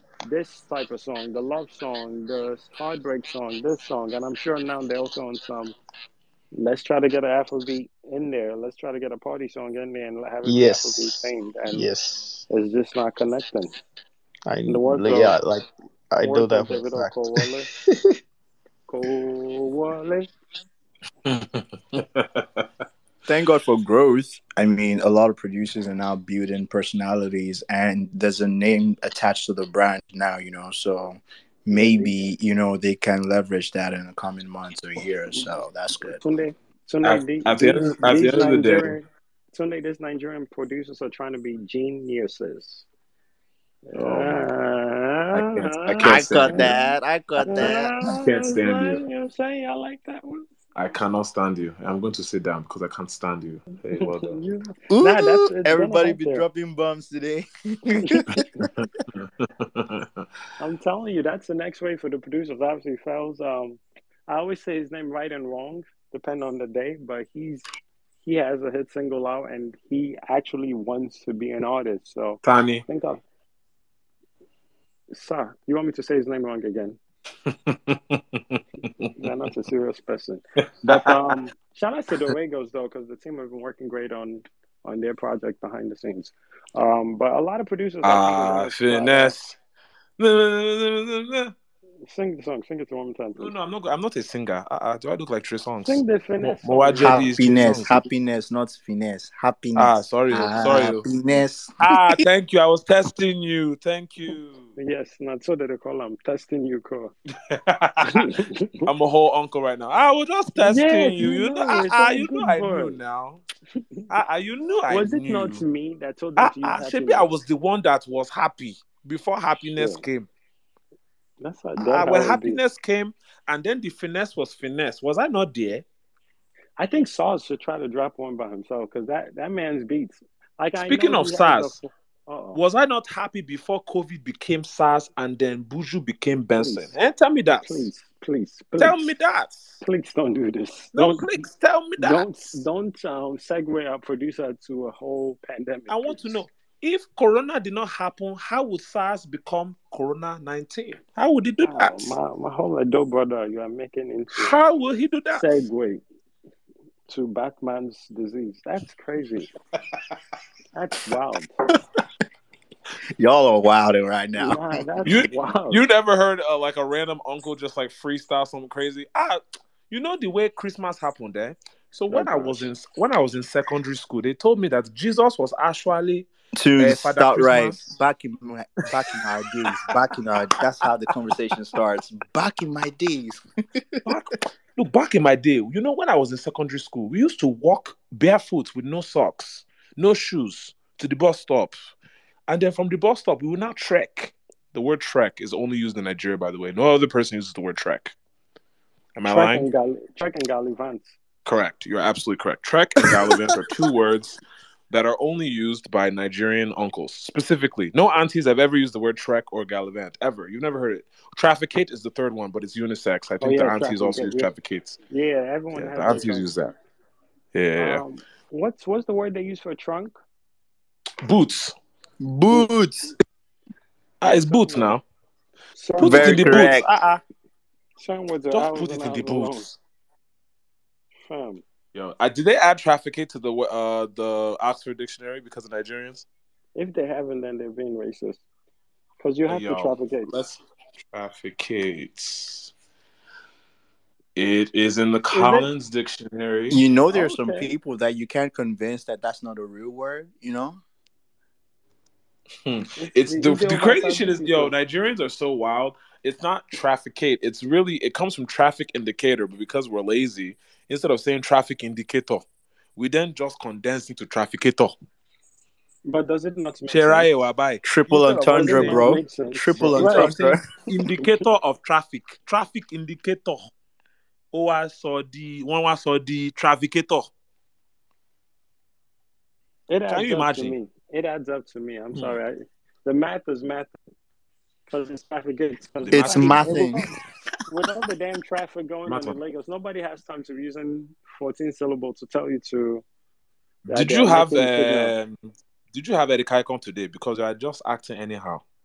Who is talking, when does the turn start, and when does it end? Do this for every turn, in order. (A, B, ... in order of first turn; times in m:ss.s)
0:00.2-0:05.7 A
0:06.5-0:11.9 A
0:10.4-0:12.4 B
0:12.5-0:13.7 A
0:14.5-0:18.2 B
0:14.7-0:15.4 A
0:16.2-0:17.7 A
0:18.9-0:20.3 A
0:21.2-0:22.7 C
0:23.3-0:36.2 D
0:31.7-0:32.1 A
0:35.3-0:42.8 A
0:37.0-0:39.0 C
0:43.9-0:46.8 A
0:44.0-0:44.5 C
0:45.3-0:46.8 C
0:46.0-0:48.0 D
0:47.4-0:50.5 A
0:47.6-0:49.0 C
0:50.7-0:54.4 C
0:53.9-0:56.4 A
0:54.9-0:58.4 D
0:58.0-0:58.6 A
0:58.3-1:00.2 C
1:00.6-1:07.7 A
1:08.2-1:13.2 A
1:12.4-1:12.8 C
1:15.1-1:17.0 A
1:17.5-1:19.1 C
1:19.2-1:29.3 A
1:20.8-1:21.1 C
1:28.0-1:29.6 C
1:30.2-1:31.5 C
1:32.0-1:33.5 A
1:33.4-1:38.0 C
1:35.8-1:37.3 A
1:37.0-1:41.7 D
1:39.8-1:41.1 C
1:41.8-1:44.7 C
1:44.8-1:47.1 A
1:47.5-1:48.3 C
1:48.0-1:48.9 A
1:48.8-1:53.4 C
1:50.6-1:53.0 A
1:54.1-1:55.6 C
1:54.9-1:57.3 A
1:56.4-2:00.3 C
1:59.8-2:00.0 A
2:01.4-2:02.6 A
2:01.8-2:05.8 C
2:06.8-2:12.6 A
2:10.8-2:11.8 C
2:12.5-2:17.9 C
2:16.6-2:16.9 A
2:17.6-2:19.1 A
2:18.8-2:19.8 C
2:19.8-2:21.3 A
2:20.9-2:22.6 C
2:22.0-2:26.4 A
2:25.9-2:32.2 C
2:31.6-2:34.5 A
2:34.3-2:35.5 C
2:35.3-2:36.0 A
2:37.1-2:39.5 A
2:40.7-2:41.6 A
2:43.2-2:44.8 D
2:44.4-2:45.8 A
2:45.0-2:57.9 C
2:52.1-2:52.7 A
2:56.6-3:04.0 D
3:04.0-3:11.9 C
3:12.5-3:18.1 C
3:19.2-3:19.7 C
3:19.2-3:21.1 A
3:21.4-3:35.0 C
3:33.4-3:34.5 A
3:35.1-3:36.5 A
3:35.7-3:36.8 C
3:37.5-3:38.0 C
3:37.8-3:40.2 A
3:41.2-3:41.7 C
3:42.2-3:43.1 D
3:44.2-3:45.0 C
3:44.2-3:45.0 A
3:45.8-3:47.2 A
3:46.0-3:46.8 C
3:46.0-3:46.8 D
3:48.0-3:49.7 A
3:48.5-3:49.8 C
3:51.2-3:51.6 A
3:51.9-3:56.2 C
3:56.7-3:58.4 A
3:59.2-4:00.4 A
3:59.5-4:00.6 C
4:01.1-4:02.7 C
4:04.4-4:06.8 C
4:05.3-4:05.7 A
4:06.7-4:10.8 D
4:07.1-4:07.7 A
4:12.6-4:25.0 C
4:13.0-4:14.7 A
4:26.0-4:27.3 A
4:26.9-4:27.9 C
4:27.8-4:30.6 D
4:28.0-4:30.4 A
4:28.5-4:29.2 C
4:29.8-4:30.5 B
4:29.8-4:33.7 C
4:34.5-4:37.3 C
4:39.9-4:44.0 A
4:40.1-4:40.8 C
4:44.9-4:47.0 A
4:46.0-4:46.8 C
4:46.1-4:47.1 D
4:47.7-4:53.0 A
4:49.0-4:49.4 C
4:53.8-4:55.4 C
4:53.9-4:55.1 A
4:55.9-4:58.6 C